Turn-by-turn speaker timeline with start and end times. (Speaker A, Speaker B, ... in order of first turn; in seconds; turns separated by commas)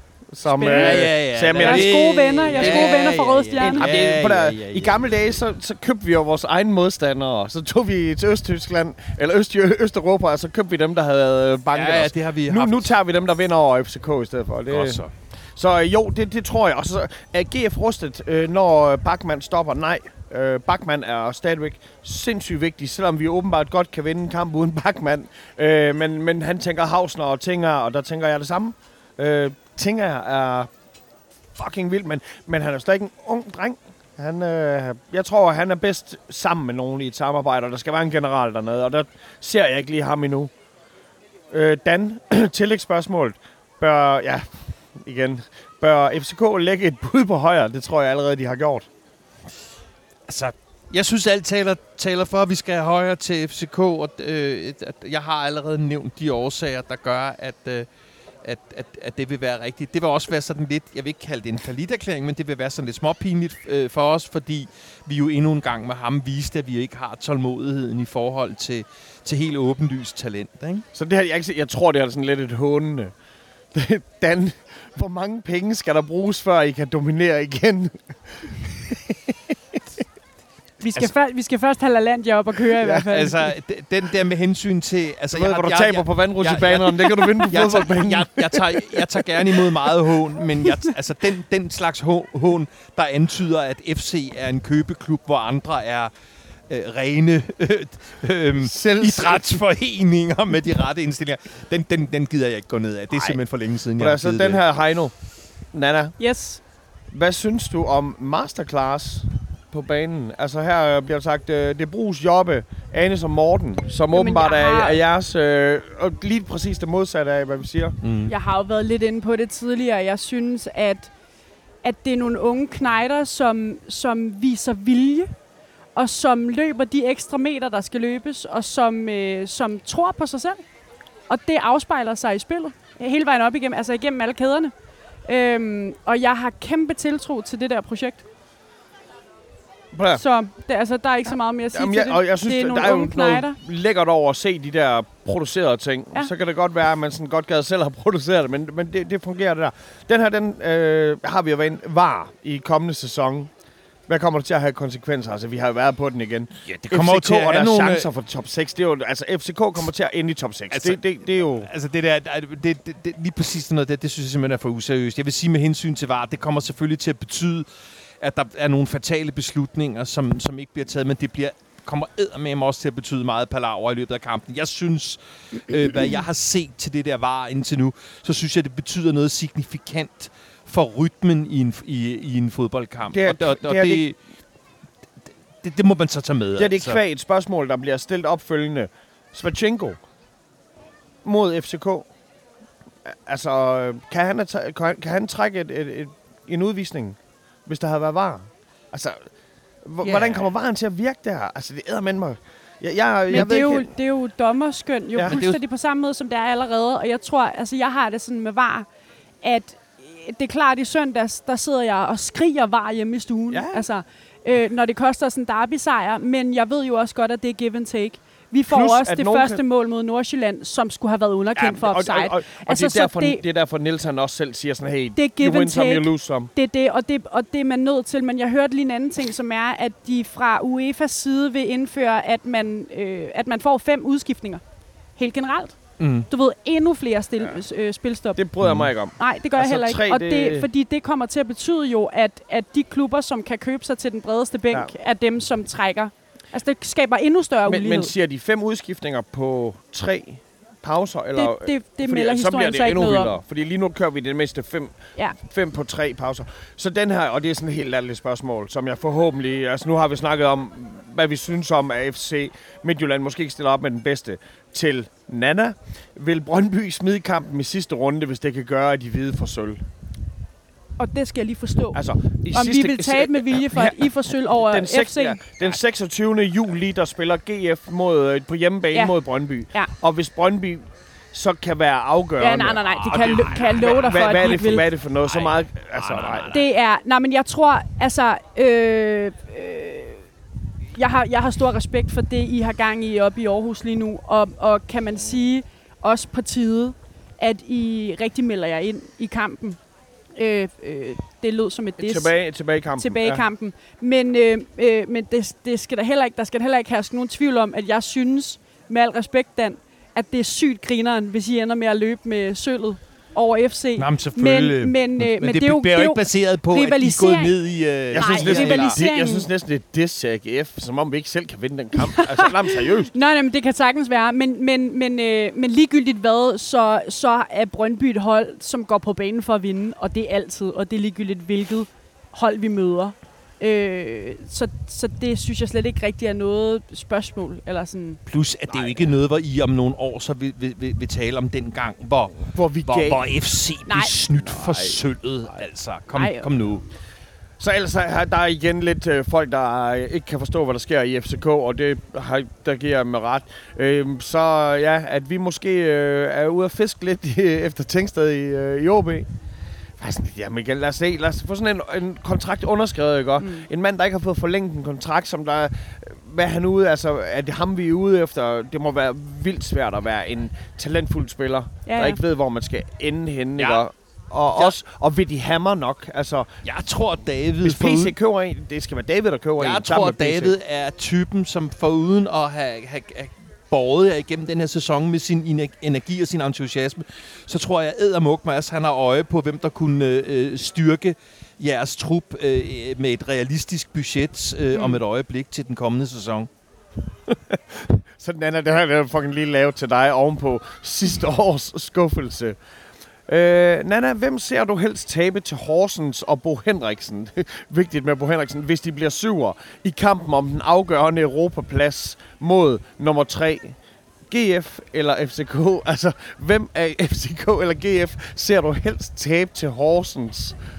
Speaker A: 0.3-30.7, Speaker B: 0.4-3.9, Speaker C: 0.7-5.1, Speaker C: 11.7-12.9, Speaker C: 14.7-15.1, Speaker A: 31.6-40.5, Speaker A: 41.5-48.9, Speaker C: 50.3-57.9, Speaker C: 58.4-70.8, Speaker A: 70.9-73.1, Speaker A: 73.7-79.3, Speaker B: 80.8-83.5, Speaker C: 82.9-96.1, Speaker A: 85.3-89.7, Speaker C: 96.7-104.6, Speaker A: 98.6-99.5, Speaker A: 103.1-103.4, Speaker A: 104.0-105.1, Speaker A: 105.7-106.2, Speaker B: 106.2-106.6, Speaker A: 107.1-118.0, Speaker B: 114.1-115.0, Speaker C: 118.0-118.3, Speaker B: 118.3-121.1, Speaker B: 121.8-125.3, Speaker B: 125.9-130.6, Speaker B: 131.3-134.7, Speaker B: 135.2-138.2, Speaker A: 139.9-140.2, Speaker B: 140.1-143.6, Speaker A: 141.7-153.5, Speaker A: 154.1-161.7, Speaker C: 156.6-158.1, Speaker C: 160.7-161.0, Speaker C: 161.6-167.7, Speaker C: 168.2-184.2, Speaker A: 183.1-184.0, Speaker C: 185.6-187.0, Speaker A: 186.6-190.0, Speaker A: 191.2-192.1, Speaker A: 193.0-199.3, Speaker A: 199.8-203.9, Speaker C: 200.0-200.4, Speaker B: 203.3-208.9, Speaker A: 205.1-205.4, Speaker C: 205.2-205.6, Speaker B: 209.4-223.4, Speaker A: 213.5-213.8, Speaker A: 218.7-219.6, Speaker A: 221.6-226.5, Speaker B: 225.2-234.6, Speaker B: 235.2-238.4, Speaker C: 236.0-236.3, Speaker A: 238.3-240.7, Speaker C: 238.6-238.9, Speaker B: 239.2-248.1, Speaker A: 247.7-269.8, Speaker B: 251.3-253.3, Speaker B: 271.0-275.4, Speaker A: 271.9-286.5, Speaker B: 282.4-284.8, Speaker C: 283.1-286.6, Speaker B: 286.5-290.2, Speaker B: 290.9-299.8, Speaker B: 300.3-302.3, Speaker A: 302.0-303.5, Speaker B: 303.0-317.6, Speaker C: 314.0-319.0, Speaker B: 318.1-319.5, Speaker A: 318.1-323.1, Speaker B: 322.1-338.2, Speaker C: 338.3-346.8, Speaker A: 338.7-339.1, Speaker A: 342.5-343.2, Speaker B: 343.9-344.1, Speaker A: 344.4-345.0, Speaker B: 346.1-346.5, Speaker A: 347.6-359.3, Speaker A: 360.0-376.5, Speaker B: 363.4-363.6, Speaker B: 371.9-372.2, Speaker C: 373.6-373.8, Speaker C: 376.6-378.1, Speaker A: 377.6-380.5, Speaker C: 379.6-396.5, Speaker A: 397.3-402.6, Speaker A: 403.3-413.8, Speaker A: 414.3-420.6